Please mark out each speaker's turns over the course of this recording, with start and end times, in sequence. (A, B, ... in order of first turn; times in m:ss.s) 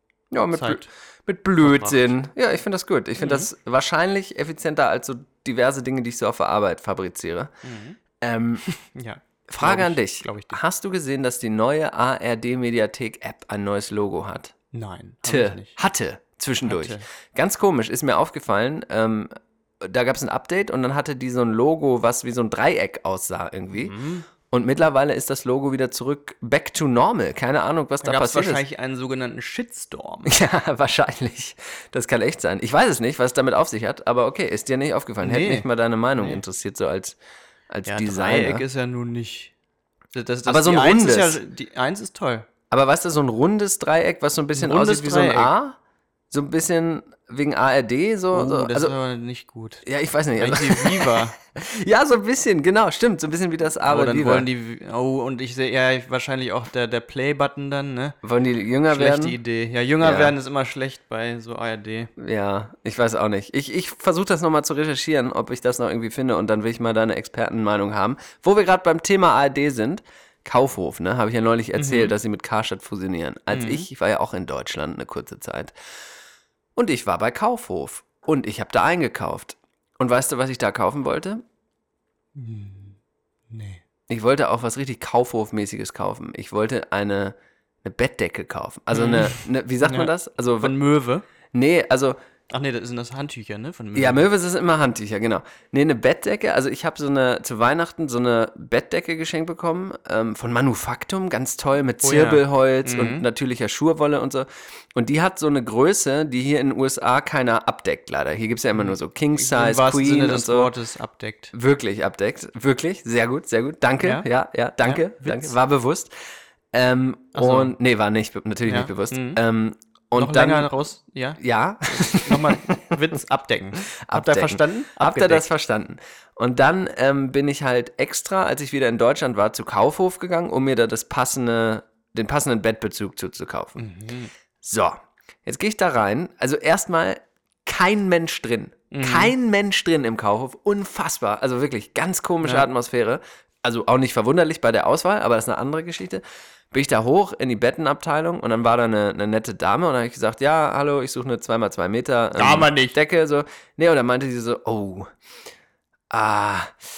0:00.3-0:07.5 A
0:00.5-0:00.9 B
0:01.6-0:02.2 B
0:03.2-0:03.5 B
0:07.6-0:08.0 B
0:08.2-0:08.6 A
0:08.7-0:10.6 B
0:09.5-0:14.5 A
0:14.7-0:15.7 B
0:15.2-0:23.9 A
0:16.6-0:17.0 B
0:23.7-0:24.2 B
0:24.5-0:28.6 A
0:28.0-0:30.4 B
0:30.2-0:37.2 A
0:35.2-0:36.4 B
0:37.7-0:38.6 A
0:37.8-0:39.5 B
0:40.1-0:42.5 B
0:40.5-0:41.4 A
0:42.7-0:45.8 A
0:44.5-0:45.5 B
0:46.3-0:48.9 A
0:48.3-0:49.8 B
0:49.8-0:54.5 A
0:50.4-0:51.4 B
0:53.8-0:58.2 B
0:58.2-0:59.4 A
0:58.9-1:02.1 B
1:00.0-1:00.3 A
1:02.2-1:15.7 A
1:11.8-1:12.1 B
1:13.5-1:13.9 B
1:16.8-1:21.4 A
1:22.3-1:23.0 B
1:23.5-1:23.8 B
1:24.1-1:30.8 A
1:28.9-1:31.2 B
1:31.5-1:32.2 A
1:32.5-1:34.3 B
1:33.9-1:50.7 A
1:42.0-1:43.2 B
1:48.7-1:51.5 B
1:51.5-1:56.1 A
1:54.0-1:54.3 B
1:54.8-1:55.5 B
1:56.7-2:00.7 A
1:57.3-1:57.7 B
1:58.6-1:59.4 B
2:00.2-2:05.5 B
2:01.4-2:02.8 A
2:04.0-2:13.8 A
2:13.8-2:14.3 B
2:14.6-2:35.1 A
2:18.9-2:19.3 B
2:22.4-2:22.7 B
2:32.3-2:33.0 B
2:36.1-2:36.8 A